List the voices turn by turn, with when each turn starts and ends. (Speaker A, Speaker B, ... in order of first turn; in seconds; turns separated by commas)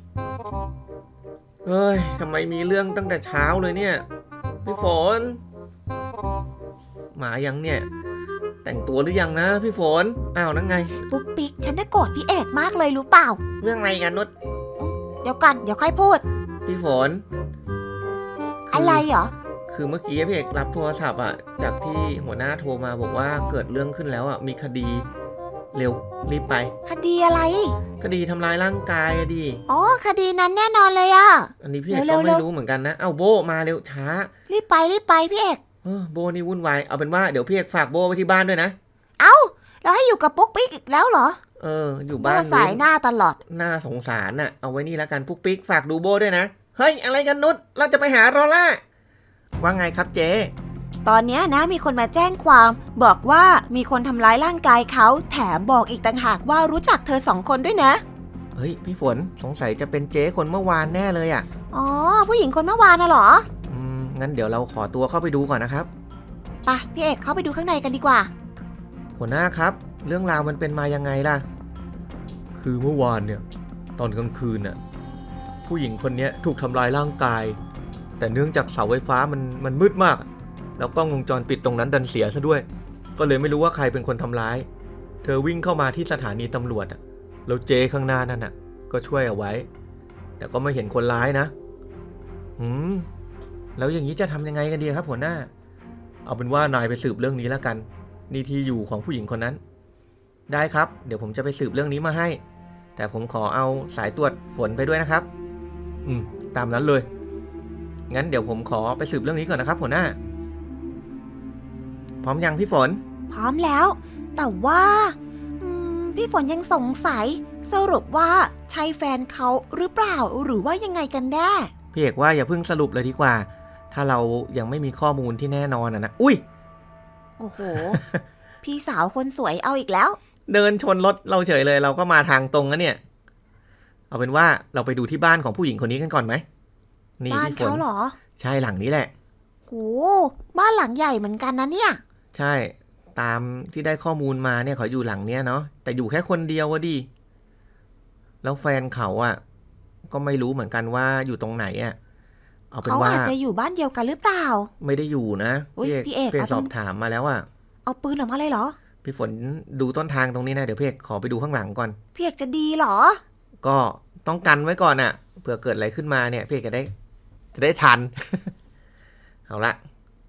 Speaker A: 1.6-4.0, Speaker A: 4.6-5.4, Speaker A: 7.1-7.9, Speaker A: 8.6-11.0, Speaker B: 11.0-13.4, Speaker A: 13.6-14.3, Speaker B: 14.8-16.2, Speaker A: 16.6-17.2, Speaker B: 18.7-19.3, Speaker A: 18.7-19.1, Speaker A: 19.7-25.1, Speaker A: 25.7-26.7, Speaker B: 26.9-27.8, Speaker A: 28.0-29.6, Speaker B: 29.7-32.4, Speaker A: 31.6-34.3, Speaker B: 34.5-35.6, Speaker A: 35.8-38.8, Speaker B: 39.2-41.4, Speaker A: 41.6-42.8, Speaker B: 42.2-43.4, Speaker A: 43.5-48.8, Speaker A: 49.6-50.5, Speaker B: 51.0-58.0, Speaker A: 58.5-61.5, Speaker B: 61.7-63.5, Speaker A: 63.7-65.9, Speaker B: 66.7-68.3, Speaker A: 69.2-71.4, Speaker A: 72.5-73.4, Speaker A: 74.0-74.8, Speaker A: 75.7-77.6, Speaker A: 78.2-80.3, Speaker A: 80.8-82.7, Speaker A: 83.2-84.7, Speaker A: 85.2-89.7, Speaker A: 90.4-91.5, Speaker A: 92.6-93.1, Speaker A: 93.8-95.5, Speaker A: 96.2-99.6, Speaker A: 100.5-102.4, Speaker A: 103.0-105.3, Speaker A: 106.0-107.0, Speaker A: 108.1-110.2, Speaker A: 112.2-113.0, Speaker B: 113.3-121.7, Speaker A: 121.9-126.4, Speaker B: 127.4-128.0, Speaker B: 128.6-130.2, Speaker A: 130.5-133.0, Speaker A: 134.1-136.4, Speaker A: 137.2-137.8, Speaker B: 137.3-138.2, Speaker A: 138.4-139.1, Speaker B: 139.7-142.0, Speaker A: 142.3-147.1, Speaker A: 148.4-149.4, Speaker A: 150.1-152.0, Speaker A: 152.7-153.3, Speaker B: 152.8-154.7, Speaker A: 154.8-157.4, Speaker B: 155.8-156.7, Speaker B: 157.8-158.7, Speaker A: 159.0-162.0, Speaker B: 162.2-163.2, Speaker A: 163.6-166.9, Speaker A: 167.5-168.5, Speaker A: 169.5-169.8